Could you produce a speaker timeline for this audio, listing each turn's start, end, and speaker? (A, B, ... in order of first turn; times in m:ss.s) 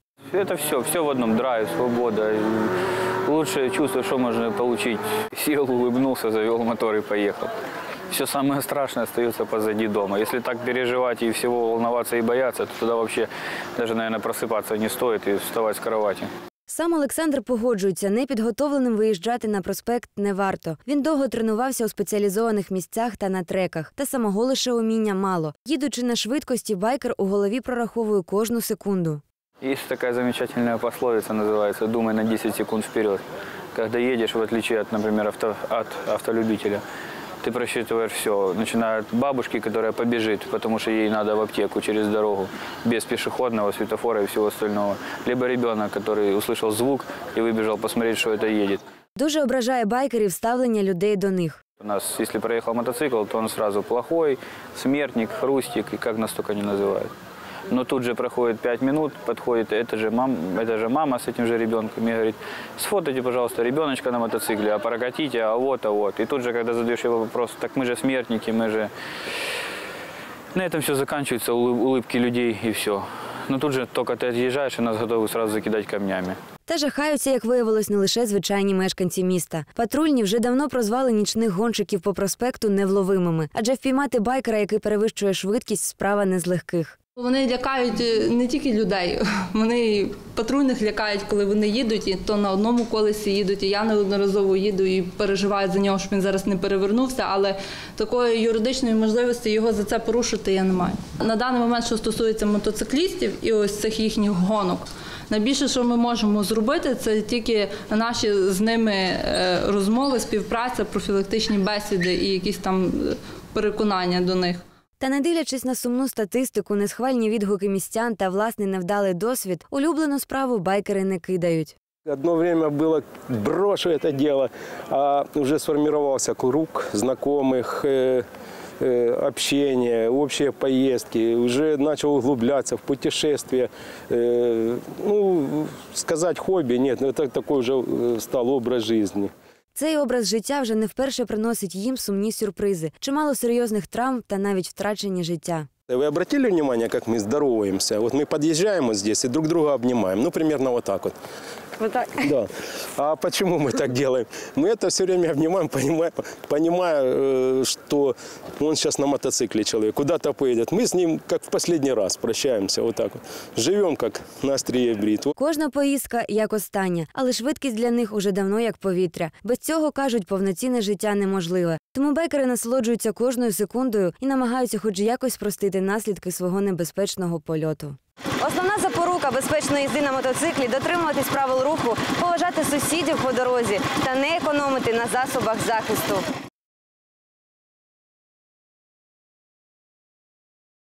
0:00.3-0:02.7 A
0:03.2-0:07.5 A
0:08.1-0:16.3 A
0:16.7-0:29.2 B
0:29.6-0:33.2 A
0:33.7-0:36.8 A
0:37.4-0:48.8 A
0:49.2-0:51.6 B
0:51.8-0:57.1 A
0:57.7-1:08.9 A
1:10.5-1:16.4 A
1:16.6-1:27.0 B
1:27.2-1:54.6 C
1:55.0-2:01.7 B
2:02.1-2:08.2 D
2:08.8-2:19.3 D
2:19.7-2:25.7 B
2:25.9-2:31.2 D
2:31.8-2:32.1 B
2:32.1-2:45.3 D
2:45.4-3:06.3 B